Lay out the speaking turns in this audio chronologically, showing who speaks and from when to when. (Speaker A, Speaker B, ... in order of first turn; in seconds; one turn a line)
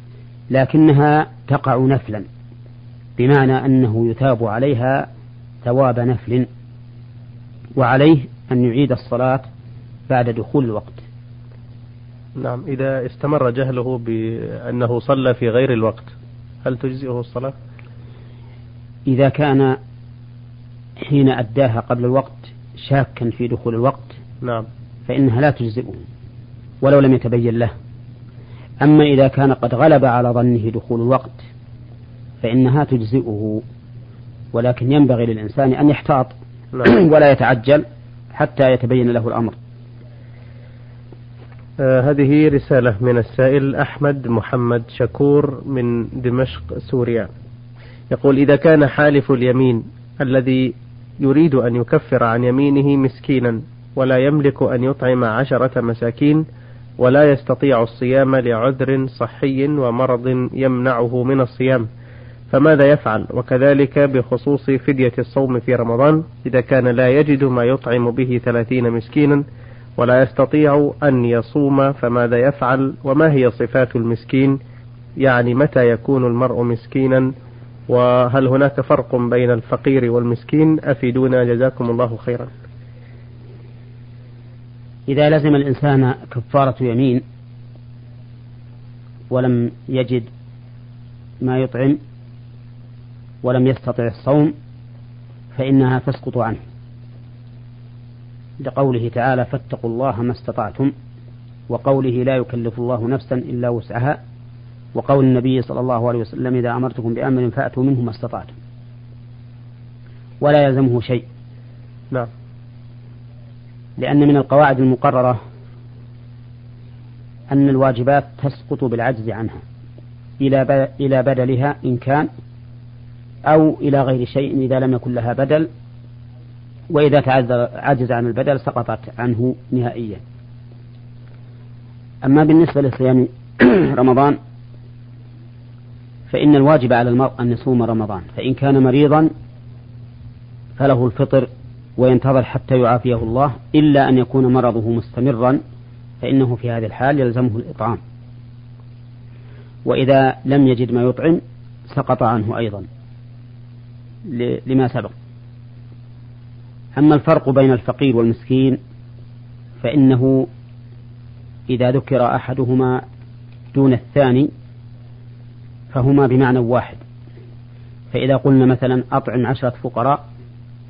Speaker A: 0.5-2.3
Speaker A: 3.2-5.1
Speaker A: 5.6-6.5
Speaker A: 7.8-9.5
Speaker A: 10.1-11.0
Speaker B: 12.4-16.1
Speaker B: 16.6-17.5
Speaker A: 19.1-19.8
Speaker A: 21.0-24.2
Speaker B: 24.4-24.7
Speaker A: 25.1-26.0
Speaker A: 26.8-27.7
Speaker A: 28.8-31.4
Speaker A: 32.4-33.6
Speaker A: 34.5-39.6
Speaker B: 41.8-47.3
Speaker B: 48.1-56.4
Speaker B: 57.0-61.9
Speaker B: 62.5-69.4
Speaker B: 70.0-74.6
Speaker B: 75.2-77.3
Speaker B: 77.9-82.5
Speaker A: 85.1-87.2
Speaker A: 89.3-90.3
Speaker A: 91.4-92.0
Speaker A: 93.4-94.5
Speaker A: 95.5-96.6
Speaker A: 98.6-100.9
Speaker A: 101.7-104.2
Speaker A: 104.9-108.5
Speaker A: 110.4-111.2
Speaker A: 114.0-115.4
Speaker A: 117.5-119.6
Speaker A: 120.4-122.3
Speaker A: 123.5-125.7
Speaker A: 126.9-130.2
Speaker A: 132.2-134.4
Speaker A: 136.3-139.3
Speaker A: 140.8-145.6
Speaker A: 146.2-148.0
Speaker A: 149.9-152.9
Speaker A: 154.3-155.1
Speaker A: 157.0-158.8
Speaker A: 159.8-160.5
Speaker A: 161.7-163.0
Speaker A: 163.7-164.5
Speaker A: 165.9-167.0
Speaker A: 168.1-170.2